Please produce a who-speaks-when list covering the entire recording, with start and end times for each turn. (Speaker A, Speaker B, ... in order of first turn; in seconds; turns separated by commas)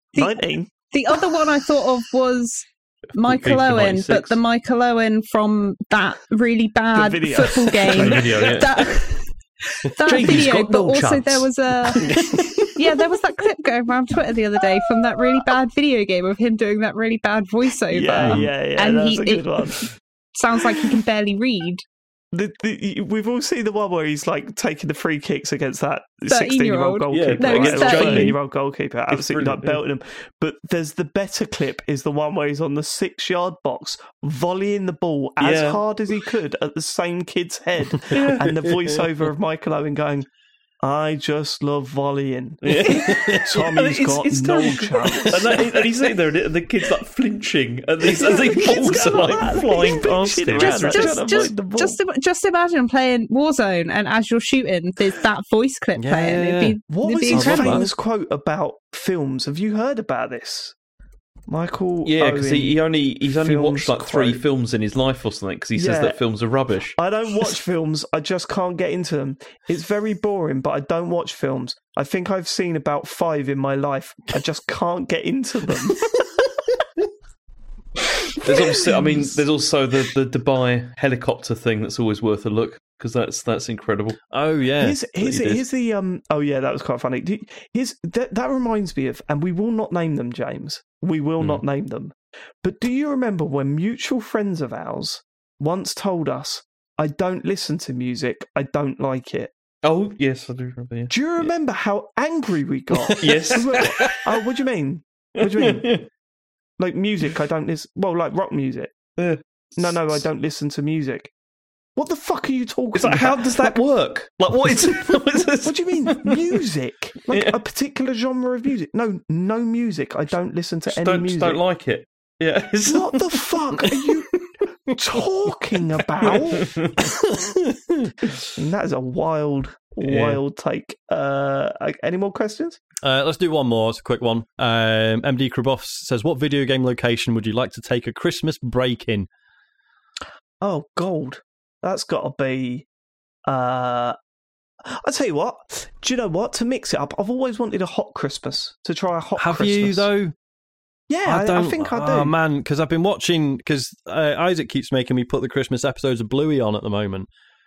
Speaker A: 0.1-0.7, Speaker B: 0.1-12.1, Speaker C: 3.2-4.4, Speaker A: 6.9-8.9, Speaker C: 7.9-9.0, Speaker C: 10.0-12.2, Speaker B: 12.7-21.8, Speaker A: 17.9-19.9, Speaker A: 22.3-40.3, Speaker B: 26.3-28.4, Speaker C: 27.1-28.4, Speaker C: 29.1-29.8, Speaker C: 35.4-35.8, Speaker C: 38.1-38.5, Speaker D: 38.5-39.0, Speaker A: 40.8-45.8, Speaker C: 42.6-51.2, Speaker D: 43.1-43.4, Speaker A: 48.0-52.0, Speaker B: 50.5-57.9, Speaker D: 56.0-56.8, Speaker A: 56.9-60.8, Speaker D: 57.3-57.8, Speaker A: 61.5-62.8, Speaker C: 62.0-67.0, Speaker A: 63.4-64.4, Speaker A: 65.8-66.2, Speaker A: 67.0-76.5, Speaker C: 78.4-84.2, Speaker A: 78.5-79.4, Speaker D: 84.3-85.0, Speaker A: 84.8-99.5, Speaker C: 85.2-85.6, Speaker C: 99.8-101.5, Speaker A: 101.1-106.0, Speaker D: 103.1-104.1, Speaker C: 103.2-104.2, Speaker C: 105.4-106.0, Speaker A: 106.8-109.2, Speaker C: 109.2-110.3, Speaker A: 109.8-111.3, Speaker A: 112.0-113.8, Speaker C: 113.0-116.6, Speaker A: 115.6-121.6, Speaker C: 117.3-117.6, Speaker C: 120.9-124.0, Speaker A: 122.8-126.8, Speaker C: 126.2-127.0, Speaker D: 127.2-128.1, Speaker A: 128.5-132.8, Speaker C: 130.0-130.4, Speaker D: 133.0-139.3, Speaker A: 140.6-142.9, Speaker A: 143.5-144.2, Speaker A: 144.9-150.1, Speaker D: 149.4-150.3, Speaker A: 151.1-152.3, Speaker D: 151.2-157.3